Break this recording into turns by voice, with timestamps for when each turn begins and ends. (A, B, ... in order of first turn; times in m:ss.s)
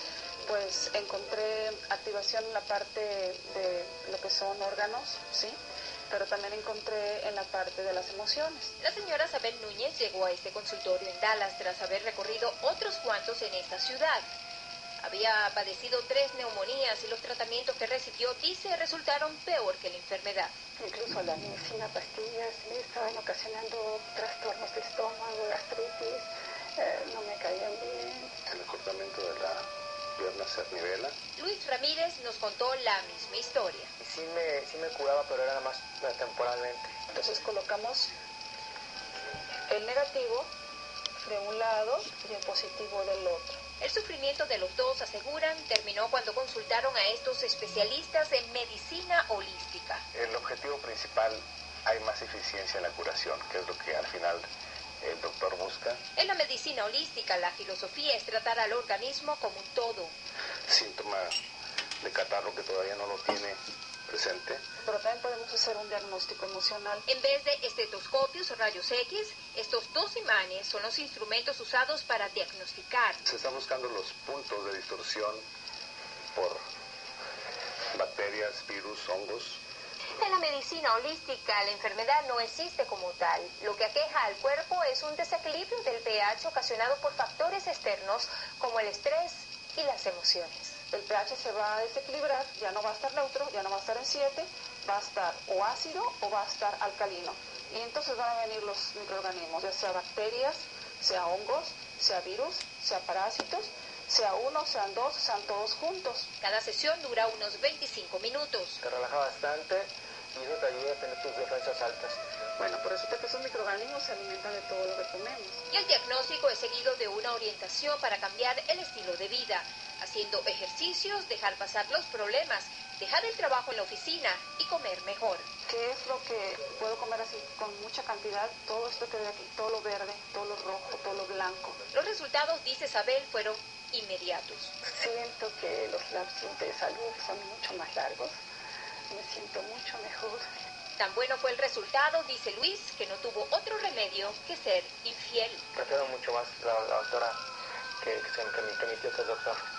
0:00.4-0:05.6 A
0:06.1-0:08.7 A
0:08.8-0:14.2 B
0:15.0-0:20.5 B
0:20.8-0:28.3 A
0:28.5-0:29.6 C
0:30.2-0:31.1 C
0:31.4-0:33.9 B
0:34.0-0:36.9 D
0:37.1-0:38.1 A
0:39.7-0:40.5 A
0:41.2-0:43.6 A
0:43.8-0:50.0 B
0:50.1-0:54.5 C
0:55.0-0:56.0 C
0:56.2-1:00.1 B
1:00.7-1:01.4 C
1:02.0-1:04.6 C
1:04.8-1:07.0 A
1:07.1-1:13.2 B
1:13.2-1:15.4 C
1:16.3-1:16.6 C
1:17.9-1:19.6 C
1:20.2-1:30.8 B
1:30.9-1:46.3 A
1:46.4-1:48.8 B
1:48.8-1:52.2 D
1:52.6-1:55.6 A
1:55.7-2:05.4 B
2:05.7-2:11.8 A
2:11.9-2:14.7 B
2:14.8-2:18.4 A
2:19.1-2:20.4 A
2:21.0-2:25.6 B
2:25.7-2:27.4 D
2:28.0-2:29.6 D